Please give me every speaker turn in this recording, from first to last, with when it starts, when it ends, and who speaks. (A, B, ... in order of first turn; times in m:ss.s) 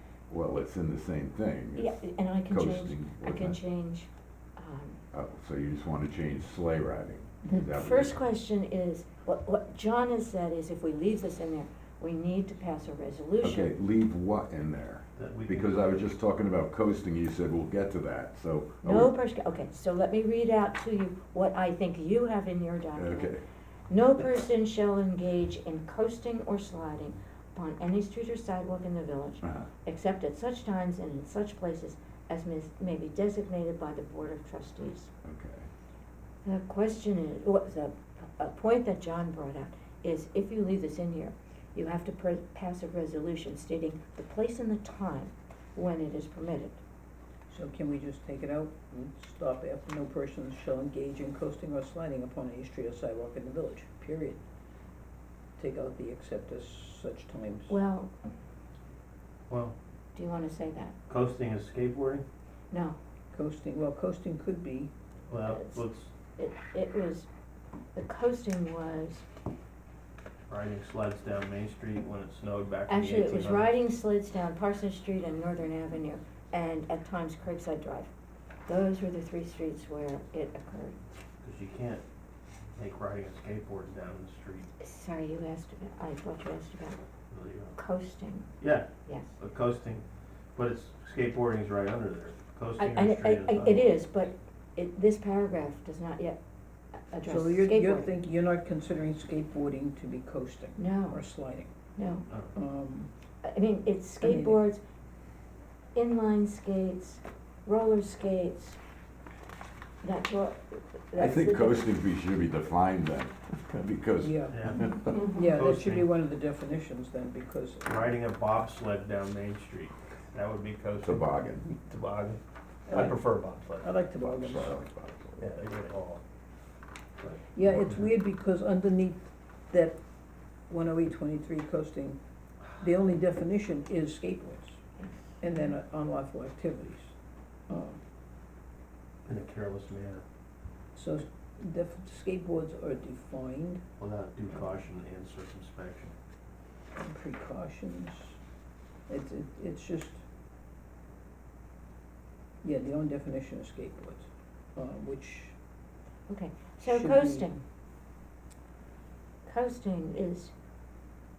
0:00.3-0:03.6 A
0:01.8-0:05.0 B
0:05.1-0:08.2 A
0:07.5-0:13.7 B
0:13.4-0:19.1 A
0:15.2-0:15.8 C
0:18.8-0:23.4 B
0:23.0-0:23.4 A
0:23.9-0:35.1 B
0:29.4-0:29.7 A
0:35.2-0:35.7 A
0:36.4-0:46.8 B
0:47.5-0:54.4 D
0:55.6-0:57.8 D
0:57.7-0:58.1 B
0:59.5-0:59.7 C
1:00.2-1:01.0 B
1:01.1-1:02.2 C
1:02.7-1:03.0 B
1:03.3-1:04.9 D
1:05.3-1:06.1 C
1:05.4-1:05.8 B
1:06.4-1:07.3 B
1:07.9-1:09.2 B
1:10.5-1:13.8 C
1:12.9-1:18.1 B
1:18.7-1:21.0 B
1:21.4-1:22.0 C
1:22.8-1:24.7 C
1:24.8-1:27.0 B
1:27.3-1:27.8 C
1:27.8-1:28.5 B
1:28.6-1:33.9 C
1:29.0-1:29.3 B
1:32.8-1:36.4 B
1:37.1-1:38.1 B
1:37.2-1:41.7 D
1:40.8-1:41.2 B
1:42.0-1:42.3 B
1:42.5-1:43.1 D
1:43.4-1:44.8 B
1:44.2-1:44.7 D
1:45.9-1:48.8 B
1:50.0-1:51.9 B
1:51.2-1:55.2 A
1:54.2-1:58.0 D
1:54.5-1:56.1 C
1:57.8-2:03.9 C
2:01.0-2:01.7 A
2:02.9-2:04.8 D
2:04.2-2:05.5 A
2:05.4-2:06.2 C
2:07.5-2:10.0 D
2:10.7-2:12.2 D
2:12.7-2:14.8 D
2:15.4-2:17.1 D
2:17.7-2:18.0 D
2:19.2-2:20.2 C
2:20.9-2:23.8 D
2:24.0-2:26.1 C
2:26.9-2:28.4 D
2:29.1-2:30.2 D
2:32.6-2:35.6 D
2:36.3-2:37.6 B
2:36.8-2:37.5 D
2:39.4-2:40.5 B